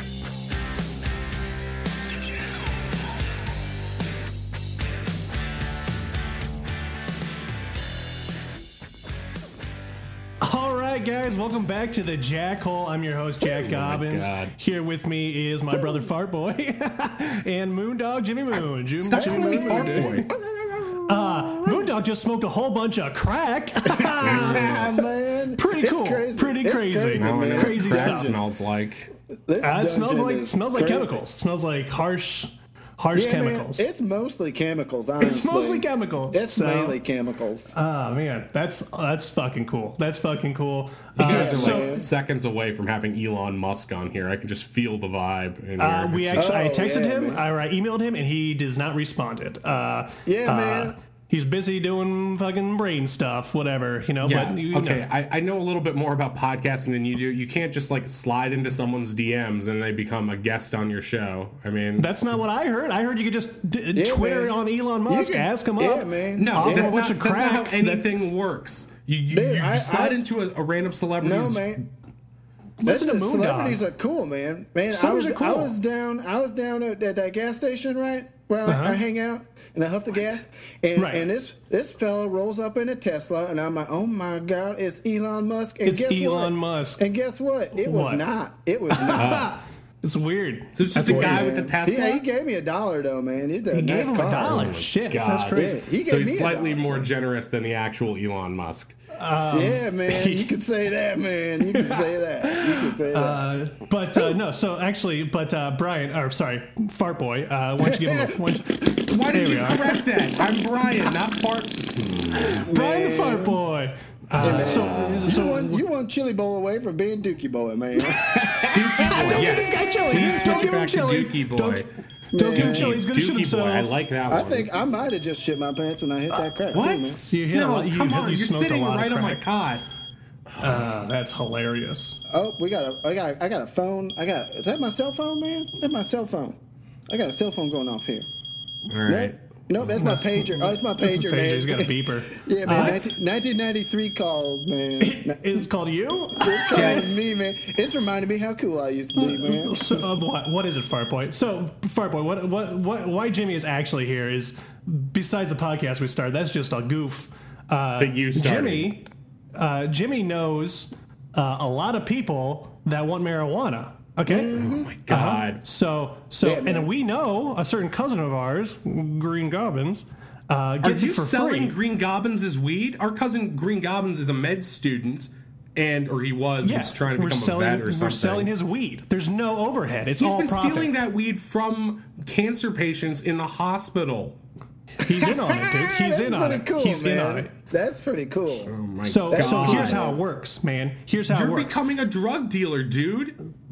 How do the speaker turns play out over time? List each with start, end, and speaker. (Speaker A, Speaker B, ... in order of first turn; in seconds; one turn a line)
Speaker A: 10.4-20.3
Speaker B: 13.5-14.5
Speaker B: 19.0-20.3
Speaker C: 19.1-21.9
Speaker A: 21.1-25.0
Speaker C: 23.8-28.4
Speaker B: 24.2-24.9
Speaker A: 25.6-28.4
Speaker B: 27.1-29.1
Speaker C: 29.5-31.2
Speaker A: 29.6-33.9
Speaker C: 33.1-37.7
Speaker A: 35.2-37.0
Speaker A: 37.7-42.0
Speaker B: 41.2-46.6
Speaker C: 41.2-42.1
Speaker A: 45.8-55.1
Speaker C: 46.4-47.4
Speaker C: 50.3-51.0
Speaker B: 54.2-62.1
Speaker A: 62.0-68.1
Speaker C: 64.0-64.5
Speaker C: 65.1-67.0
Speaker B: 66.4-71.8
Speaker C: 69.3-70.2
Speaker C: 71.2-71.8
Speaker A: 72.8-73.8
Speaker C: 72.8-89.5
Speaker A: 74.9-75.8
Speaker A: 78.7-79.0
Speaker A: 81.0-81.3
Speaker A: 85.8-87.0
Speaker A: 87.7-88.2
Speaker A: 88.9-91.5
Speaker B: 89.2-89.5
Speaker B: 90.7-92.2
Speaker C: 91.0-94.8
Speaker A: 93.7-95.8
Speaker B: 94.5-99.0
Speaker C: 95.5-97.1
Speaker A: 99.2-100.5
Speaker C: 99.5-103.5
Speaker A: 101.7-110.1
Speaker C: 107.8-108.4
Speaker B: 109.0-112.6
Speaker A: 112.4-115.8
Speaker C: 112.6-113.6
Speaker B: 114.4-115.1
Speaker C: 114.4-120.7
Speaker A: 118.2-124.0
Speaker B: 118.7-121.9
Speaker C: 122.3-123.0
Speaker B: 122.5-124.7
Speaker C: 124.3-127.2
Speaker B: 126.7-129.8
Speaker A: 127.1-129.4
Speaker A: 130.6-132.2
Speaker C: 132.3-136.6
Speaker C: 137.1-138.3
Speaker B: 138.9-139.3
Speaker C: 139.1-145.6
Speaker A: 139.8-143.2
Speaker A: 145.0-147.1
Speaker C: 146.3-150.0
Speaker B: 146.7-147.1
Speaker A: 149.2-171.8
Speaker B: 158.0-158.9
Speaker C: 164.3-164.9
Speaker B: 164.6-165.6
Speaker C: 166.4-166.9
Speaker B: 170.8-178.5
Speaker A: 176.6-180.9
Speaker B: 180.2-184.4
Speaker A: 185.0-187.5
Speaker C: 185.0-188.7
Speaker B: 188.7-190.0
Speaker A: 189.0-191.9
Speaker C: 189.3-190.2
Speaker B: 191.3-193.4